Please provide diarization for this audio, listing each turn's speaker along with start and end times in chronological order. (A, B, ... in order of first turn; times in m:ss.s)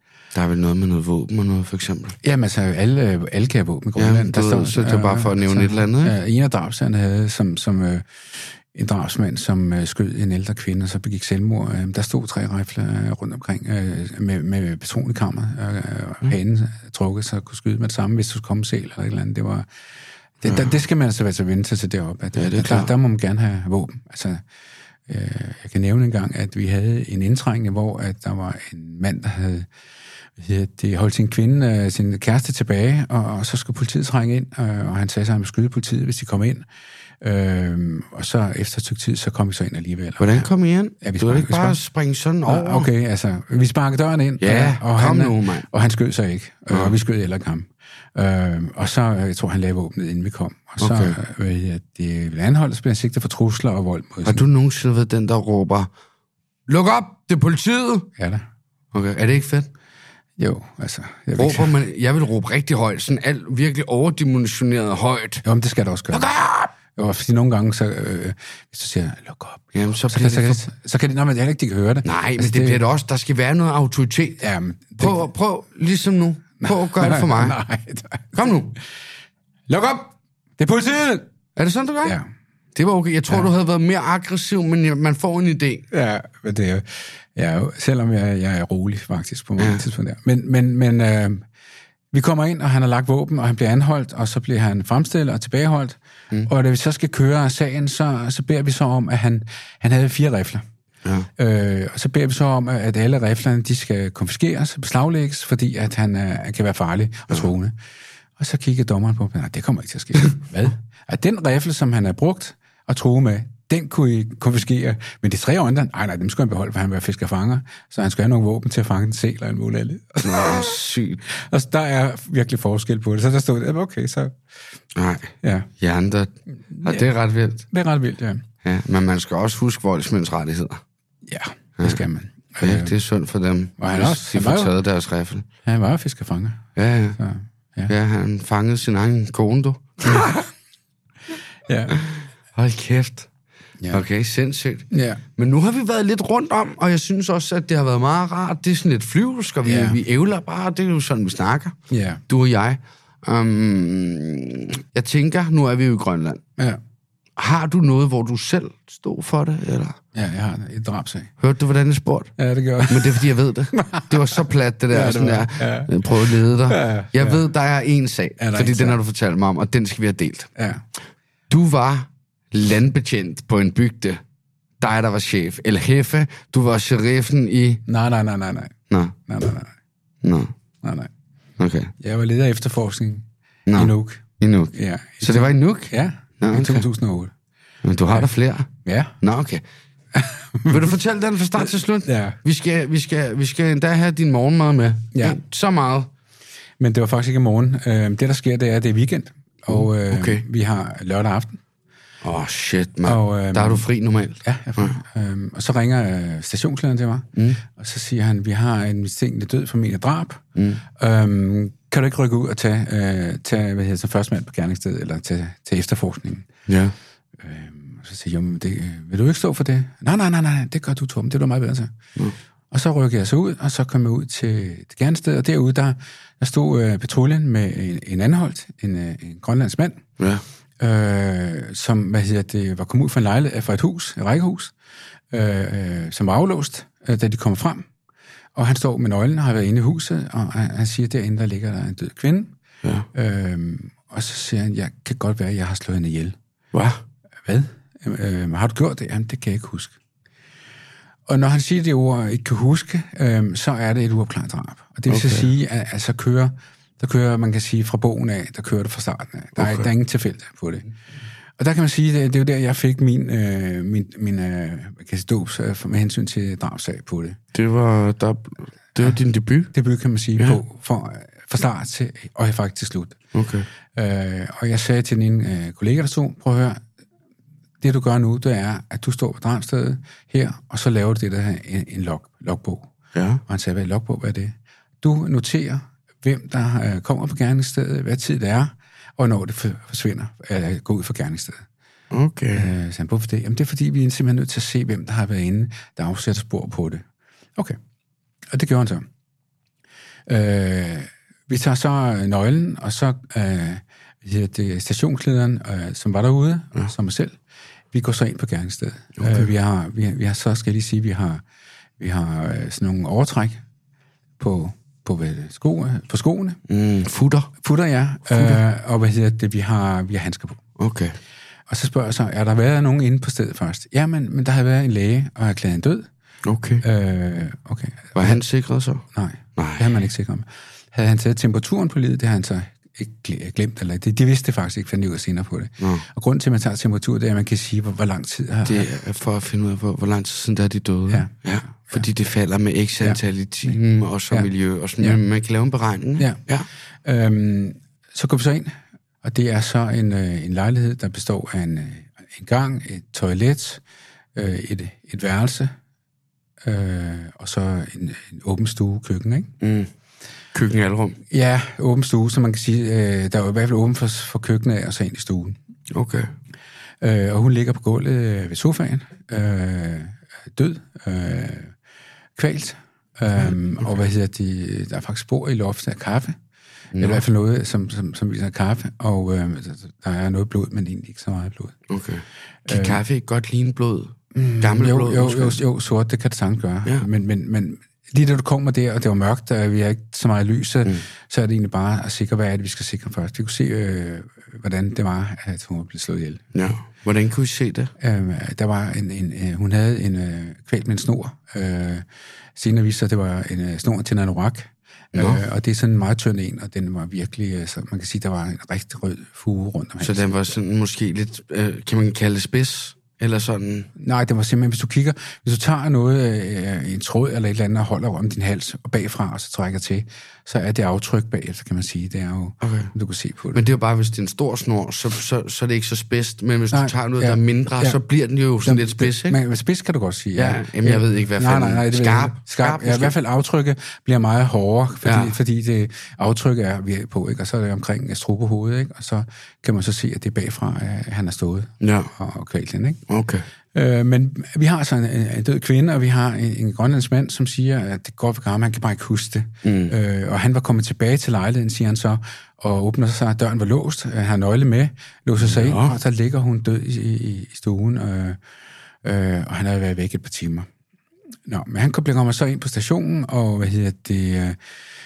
0:00.3-0:02.2 A
0:02.2-0:08.1 B
0:04.0-0:06.2 A
0:08.7-0:19.7 B
0:20.4-0:24.4 B
0:20.4-0:20.7 A
0:22.3-0:22.9 A
0:25.1-0:29.7 B
0:30.4-0:36.6 B
0:37.2-0:40.5 B
0:40.2-0:42.9 A
0:41.0-0:41.8 B
0:42.5-0:54.4 B
0:44.4-0:45.7 A
0:46.7-0:47.0 A
0:50.8-0:51.2 A
0:54.2-0:55.9 A
0:56.7-0:58.1 A
0:58.2-0:58.4 B
0:58.9-0:59.7 A
1:00.4-1:01.7 B
1:01.3-1:05.4 A
1:05.4-1:06.3 B
1:06.1-1:06.7 A
1:06.9-1:12.8 B
1:09.7-1:10.6 A
1:12.0-1:14.4 A
1:14.4-1:15.2 B
1:15.0-1:17.6 A
1:16.6-1:18.5 B
1:18.3-1:18.8 A
1:19.7-1:21.2 B
1:21.6-1:22.2 A
1:22.7-1:25.8 A
1:25.9-1:31.4 B
1:29.6-1:29.8 A
1:32.1-1:40.6 B
1:41.4-1:47.7 B
1:48.4-2:04.4 B
2:00.2-2:01.2 A
2:05.0-2:07.7 A
2:05.4-2:05.7 B
2:06.7-2:07.0 B
2:07.7-2:08.4 B
2:08.6-2:10.8 A
2:11.2-2:12.9 B
2:11.8-2:12.0 A
2:12.6-2:15.4 A
2:13.8-2:14.7 B
2:15.6-2:16.6 B
2:16.8-2:17.2 A
2:17.2-2:17.9 B
2:17.9-2:20.5 A
2:21.7-2:22.0 B
2:21.9-2:23.3 A
2:23.9-2:31.7 A
2:24.9-2:25.2 B
2:29.6-2:30.0 B
2:31.9-2:32.2 B
2:32.3-2:36.4 A
2:37.4-2:40.0 A
2:40.1-2:41.3 B
2:41.4-2:42.3 A
2:42.4-2:47.4 B
2:42.8-2:50.5 A
2:48.4-2:49.0 B
2:50.6-2:50.8 B
2:51.5-2:54.2 A
2:54.8-2:57.8 A
2:57.9-2:58.7 B
2:58.9-2:59.1 A
2:59.3-2:59.7 B
3:00.2-3:00.5 A
3:00.8-3:01.1 B
3:01.6-3:01.9 A
3:02.0-3:07.3 B
3:03.7-3:06.8 A
3:07.8-3:08.7 A
3:08.8-3:09.2 B
3:09.2-3:09.6 A
3:10.1-3:10.9 B
3:10.7-3:16.1 A
3:12.0-3:12.4 B
3:16.8-3:21.6 B
3:19.7-3:20.4 A
3:22.2-3:25.0 A
3:23.0-3:23.8 B
3:24.4-3:36.5 B
3:27.4-3:27.6 A
3:30.6-3:30.8 A
3:36.7-3:36.9 A
3:37.4-3:41.9 B
3:42.7-3:50.0 B
3:50.2-3:50.4 A
3:50.8-3:54.7 B
3:55.3-3:57.9 B
3:58.6-4:02.5 B
4:03.1-4:06.4 B
4:06.7-4:07.0 A
4:07.4-4:10.0 B
4:11.3-4:20.9 B
4:15.1-4:15.5 A
4:19.6-4:19.8 A
4:21.6-4:27.4 B
4:27.5-4:29.7 A
4:29.7-4:33.2 B
4:33.3-4:33.7 A
4:33.9-4:36.8 B
4:37.8-4:42.9 B
4:43.1-4:43.4 A
4:43.5-4:51.6 B
4:52.1-4:52.7 A
4:52.5-4:57.0 B
4:58.5-4:59.0 B
5:00.3-5:07.4 B
5:07.9-5:11.4 B
5:09.2-5:09.5 A
5:12.0-5:13.6 B
5:14.4-5:16.6 B
5:16.7-5:17.5 A
5:17.6-5:20.6 B
5:20.8-5:21.2 A
5:21.7-5:26.1 B
5:26.4-5:26.8 A
5:26.8-5:28.4 B
5:28.1-5:29.0 A
5:29.1-5:38.9 B
5:29.6-5:29.9 A
5:35.8-5:36.0 A
5:38.6-5:46.7 A
5:43.0-5:43.8 B
5:47.0-5:53.8 B
5:54.3-5:55.7 B
5:56.6-5:59.5 B
5:59.6-5:59.9 A
6:00.5-6:01.2 A
6:01.3-6:05.6 B
6:05.9-6:06.3 A
6:07.0-6:11.7 B
6:12.4-6:16.4 B
6:16.9-6:17.2 A
6:17.0-6:21.8 B
6:21.9-6:25.6 A
6:22.7-6:23.0 B
6:24.3-6:36.4 B
6:36.5-6:37.9 A
6:38.0-6:50.3 B
6:45.1-6:45.4 A
6:50.0-6:53.9 A
6:54.0-7:03.6 B
7:02.6-7:02.9 A
7:03.5-7:09.4 A
7:06.7-7:08.0 B
7:08.6-7:23.0 B
7:10.3-7:13.1 A
7:15.0-7:15.4 A
7:21.8-7:22.1 A
7:23.1-7:23.4 A
7:23.7-7:38.4 B
7:29.6-7:29.9 A
7:35.4-7:36.0 A
7:39.0-7:40.7 B
7:41.4-7:44.6 B